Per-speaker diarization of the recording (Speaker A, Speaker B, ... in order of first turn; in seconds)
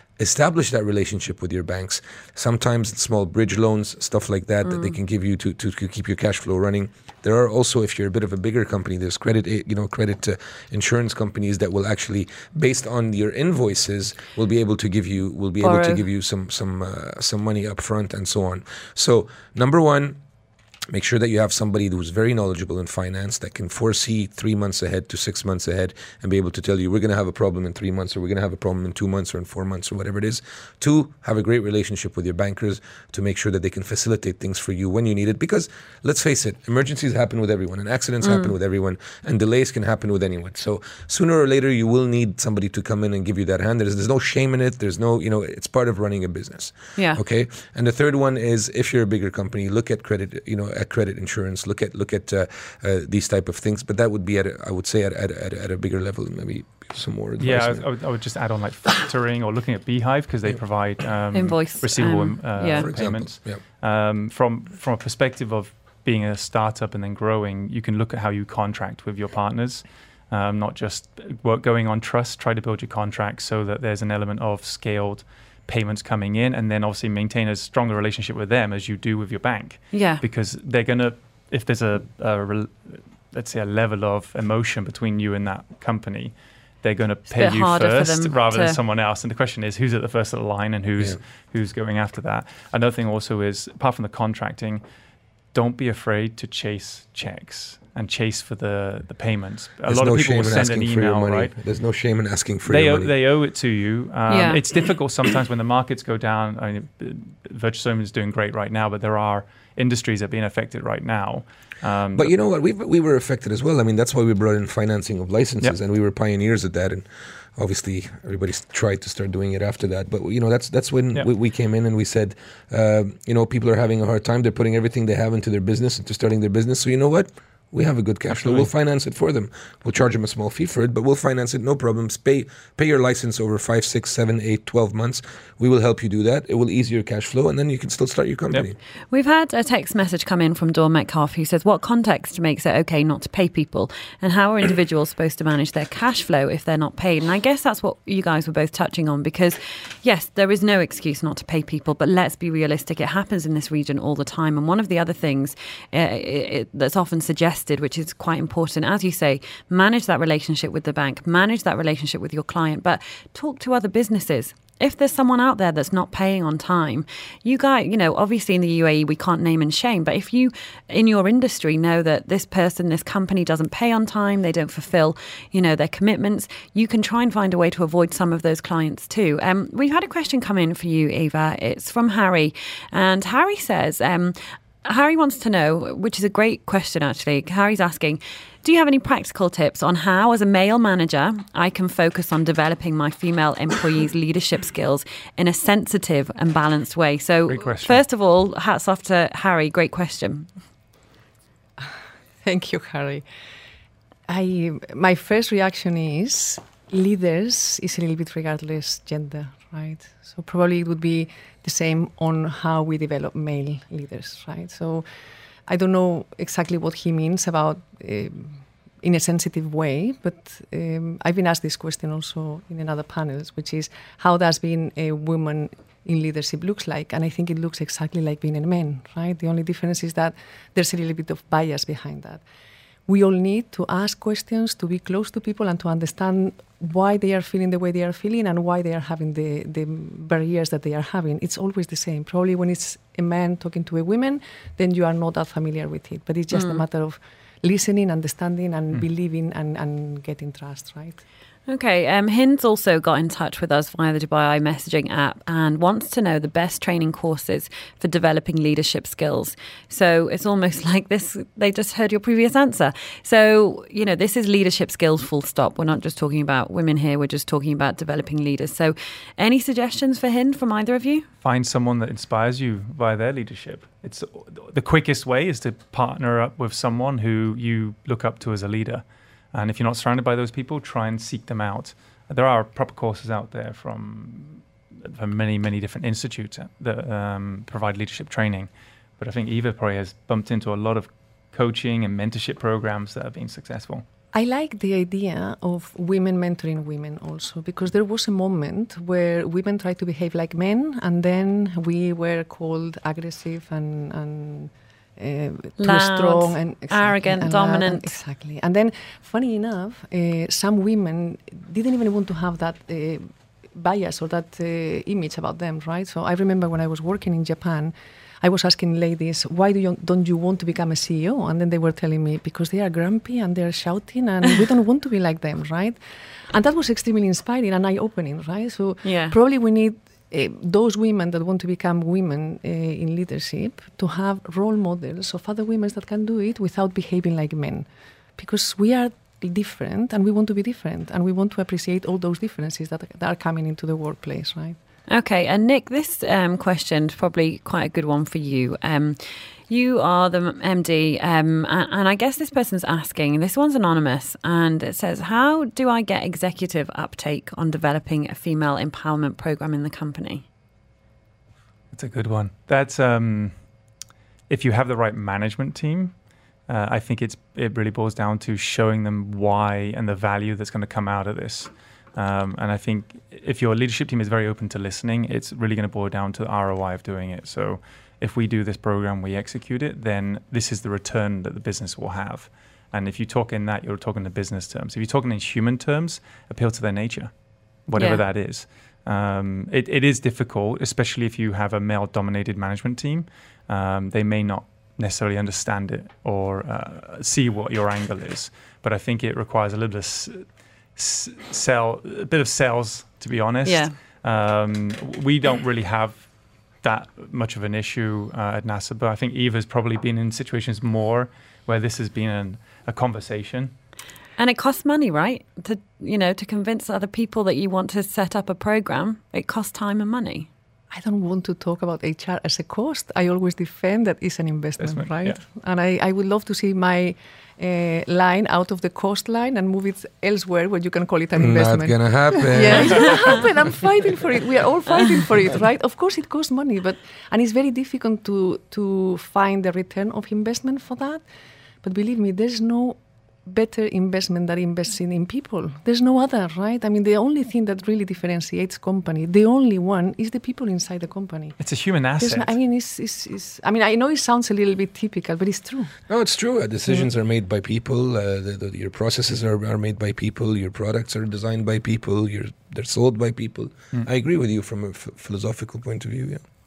Speaker A: 0.2-20.2, 20.9-57.9, 62.7-63.6, 99.9-103.1, 112.2-138.8, 431.4-433.4, 456.1-466.4
Speaker B: 4.6-5.0, 15.6-16.1, 38.2-38.5, 61.3-62.9, 79.9-80.2, 87.3-88.8, 104.3-104.6, 139.1-200.5, 246.5-246.8, 251.7-271.3, 305.8-308.2, 329.0-329.4, 345.1-360.4, 388.0-388.2, 403.6-403.9, 414.4-420.5
Speaker C: 57.4-94.8, 95.5-101.5, 102.7-112.3, 128.3-128.7, 197.5-198.0, 271.4-294.0, 361.9-363.6, 364.5-387.3, 387.9-413.7, 424.8-425.4, 451.6-452.6
Speaker D: 202.4-203.2, 204.3-215.1, 215.7-232.4, 233.1-251.2, 294.3-326.0, 326.5-344.8, 420.9-441.2, 441.8-451.6, 452.2-455.9